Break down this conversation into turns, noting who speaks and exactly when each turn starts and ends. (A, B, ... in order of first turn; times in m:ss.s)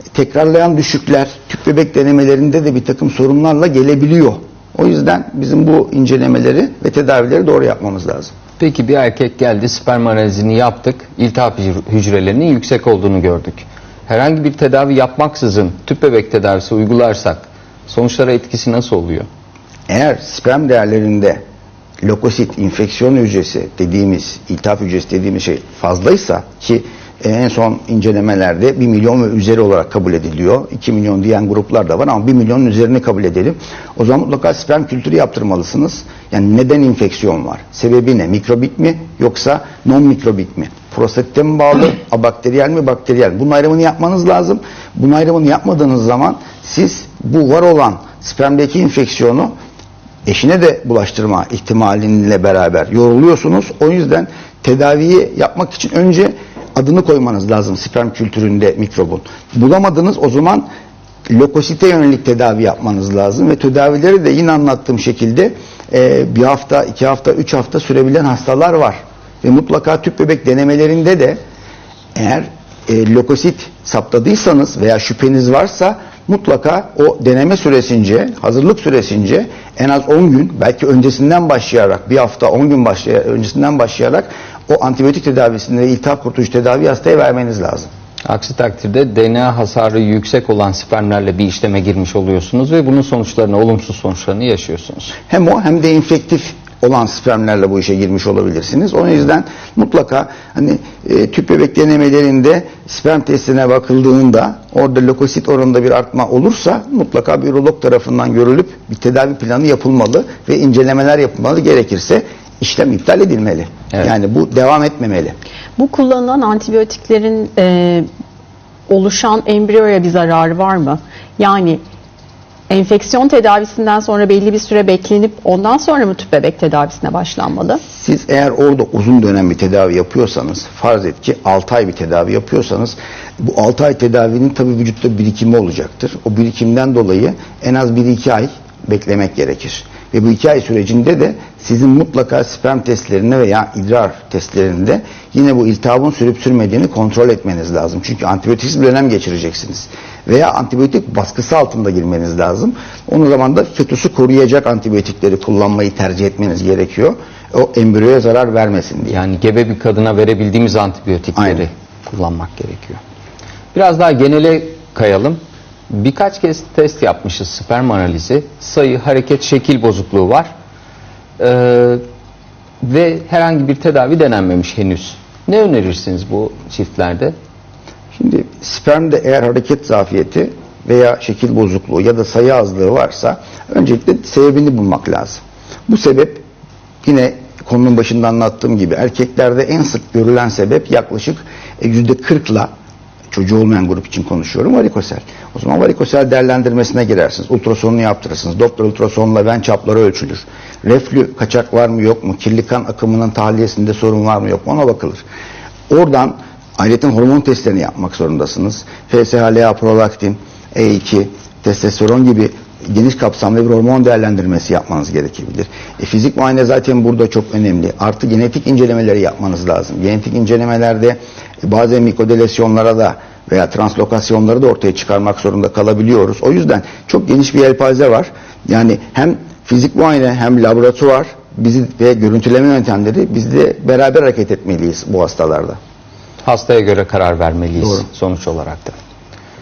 0:00.1-0:08.3 A
0:08.6-0:19.3 B
0:19.9-0:21.4 A
0:22.0-0:49.5 A
0:50.2-1:00.7 A
1:01.3-1:11.4 A
1:12.2-1:27.9 A
1:28.2-1:35.2 B
1:35.3-1:55.4 A
1:55.8-1:58.1 C
1:58.9-2:01.8 C
2:02.7-2:07.8 C
2:07.9-2:39.2 A
2:39.1-2:43.0 B
2:41.4-2:41.6 A
2:43.7-2:50.5 B
2:51.4-2:52.0 B
2:52.8-2:57.4 B
2:58.2-3:06.4 A
3:07.0-3:12.7 A
3:13.3-3:25.2 A
3:25.9-3:55.8 A
3:56.4-3:59.0 B